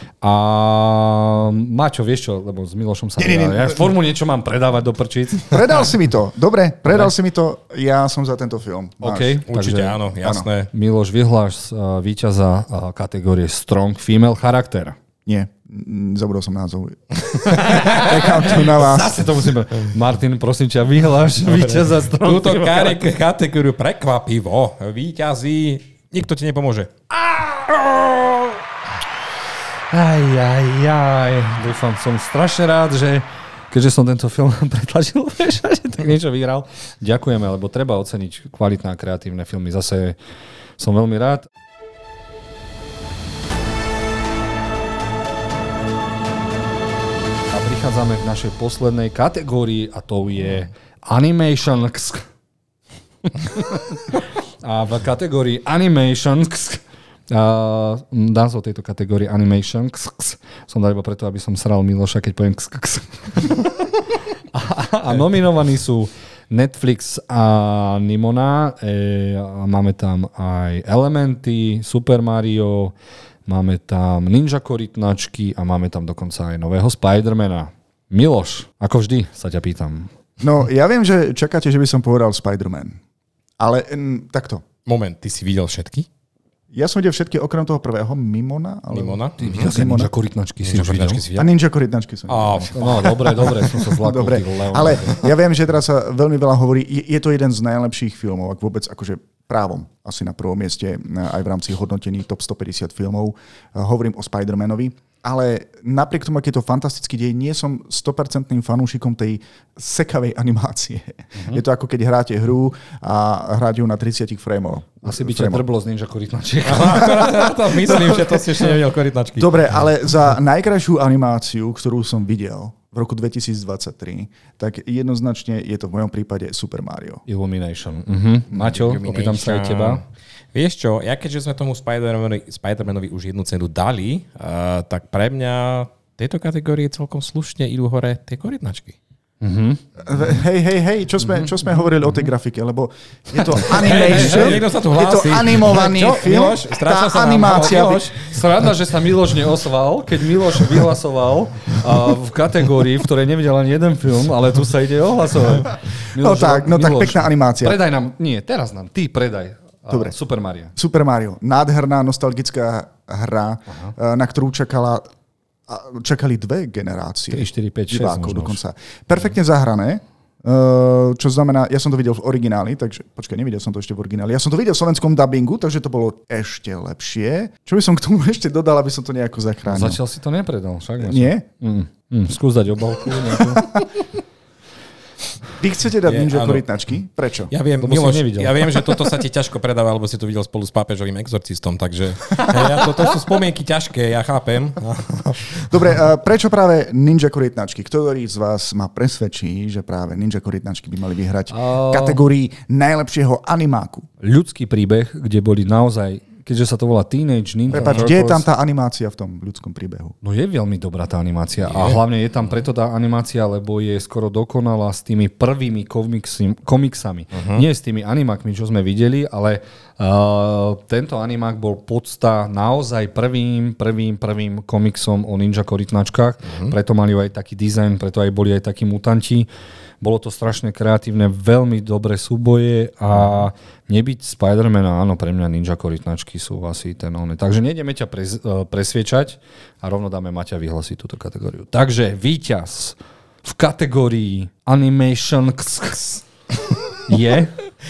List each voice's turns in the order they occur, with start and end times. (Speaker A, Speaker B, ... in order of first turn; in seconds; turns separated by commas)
Speaker A: 0.2-5.6, Speaker B: 3.2-3.9, Speaker B: 5.4-9.4, Speaker A: 9.0-10.1, Speaker C: 9.5-10.7, Speaker A: 10.6-15.0, Speaker B: 15.2-19.2, Speaker C: 17.3-18.6, Speaker A: 17.5-23.0, Speaker C: 21.4-26.9, Speaker A: 27.1-28.6, Speaker A: 29.9-40.2, Speaker A: 40.8-41.5, Speaker A: 47.5-52.3, Speaker A: 53.2-63.8, Speaker A: 64.5-72.9, Speaker A: 73.5-80.1, Speaker B: 80.4-83.0, Speaker B: 83.6-84.6, Speaker C: 84.8-86.1, Speaker B: 86.7-90.1, Speaker C: 88.9-89.8, Speaker A: 89.4-91.2, Speaker C: 90.6-91.5, Speaker B: 91.3-115.6, Speaker C: 92.3-93.5, Speaker A: 92.7-95.2, Speaker A: 111.3-111.6, Speaker A: 115.0-117.5, Speaker C: 116.6-119.7, Speaker B: 118.0-118.4, Speaker B: 119.4-127.2, Speaker A: 127.3-130.0, Speaker C: 128.5-139.0, Speaker A: 139.4-139.8, Speaker B: 140.1-148.2, Speaker A: 141.2-142.3, Speaker A: 143.3-144.6, Speaker C: 143.6-148.3, Speaker A: 148.2-160.7, Speaker B: 156.2-157.8, Speaker B: 160.8-165.1, Speaker B: 165.7-180.0, Speaker A: 167.3-168.6, Speaker A: 179.7-183.8, Speaker B: 181.0-181.4, Speaker B: 185.6-187.5, Speaker C: 186.1-186.6, Speaker C: 187.5-195.7, Speaker A: 187.8-189.0, Speaker B: 195.6-204.1, Speaker A: 201.5-202.2, Speaker A: 204.2-208.5, Speaker B: 207.7-210.2, Speaker A: 210.2-229.5, Speaker C: 211.6-212.0, Speaker C: 217.3-217.6, Speaker A: 230.0-246.2, Speaker A: 247.1-247.5